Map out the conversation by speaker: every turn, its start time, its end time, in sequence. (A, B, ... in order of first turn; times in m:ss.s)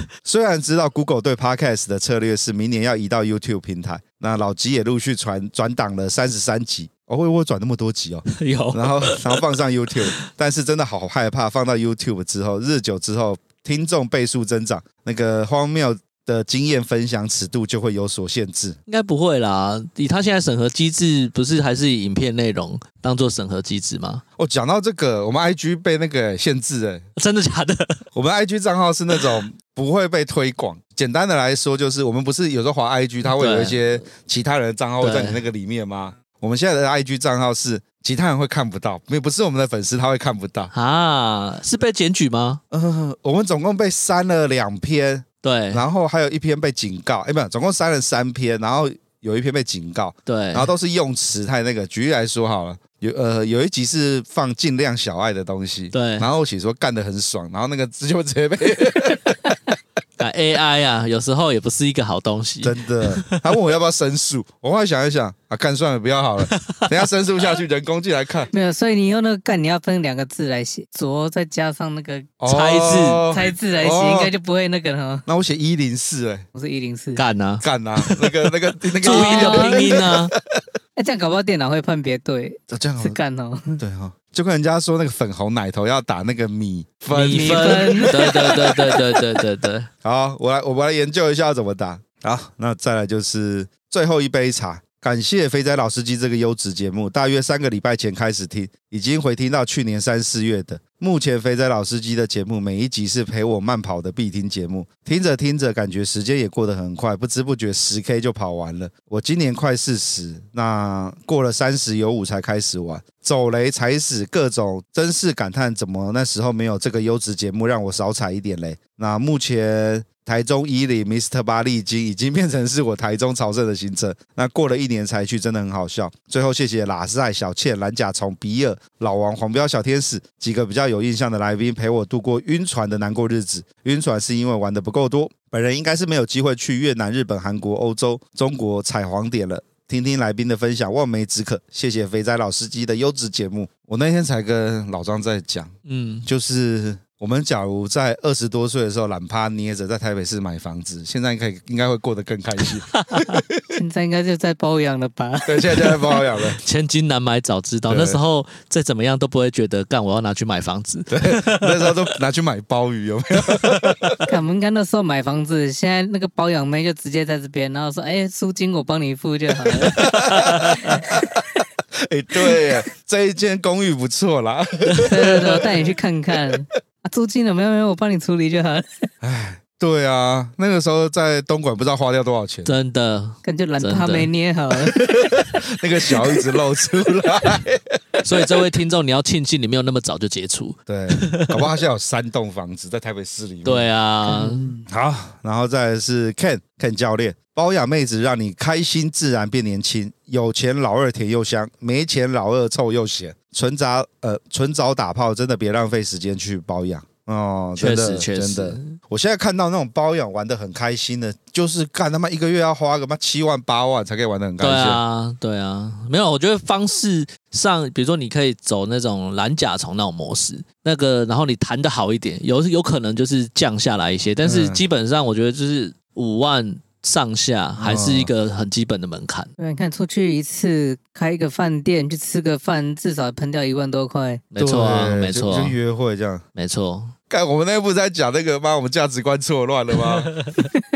0:00.2-0:18.8 A
0:08.3-0:09.4 B
0:18.9-0:24.2 B
0:24.4-0:27.0 A
0:27.2-0:28.0 B
0:28.1-0:40.7 A
0:33.3-0:33.9 B
0:35.0-0:35.4 B
0:40.7-0:42.6 B
0:42.7-0:59.4 A
0:45.4-0:45.8 B
0:50.3-0:50.7 B
0:55.9-0:56.3 B
1:00.2-1:03.4 B
1:02.6-1:08.5 A
1:08.5-1:12.3 C
1:12.4-1:14.3 A
1:12.5-1:13.3 B
1:13.3-1:15.3 C
1:15.3-1:16.4 A
1:16.5-1:17.2 C
1:17.2-1:20.3 B
1:17.6-1:20.6 A
1:19.0-1:19.7 C
1:21.0-1:23.8 C
1:22.7-1:23.2 A
1:23.8-1:29.0 A
1:27.1-1:29.9 B
1:27.3-1:28.3 C
1:30.0-2:25.7 A
2:25.8-2:26.2 B
2:26.2-2:33.6 A
2:32.9-2:33.3 B
2:33.8-2:36.2 C
2:35.4-2:36.6 A
2:36.6-2:42.0 B
2:37.9-2:38.2 A
2:41.1-2:44.3 A
2:44.3-2:51.2 C
2:49.8-2:51.4 A
2:51.9-2:55.6 A
2:55.0-2:58.8 C
2:59.2-3:02.7 A
3:02.6-3:04.3 B
3:03.4-3:05.1 C
3:05.0-3:08.4 A
3:08.2-3:11.7 B
3:10.9-3:13.9 A
3:13.6-3:14.7 B
3:14.2-3:14.8 C
3:14.9-3:35.0 A
3:27.8-3:29.0 B
3:34.6-3:49.5 B
3:44.4-3:44.8 A
3:47.8-3:48.3 A
3:49.6-3:54.4 C
3:54.5-3:55.7 B
3:54.6-3:56.4 A
3:56.6-3:57.1 B
3:57.3-4:00.4 A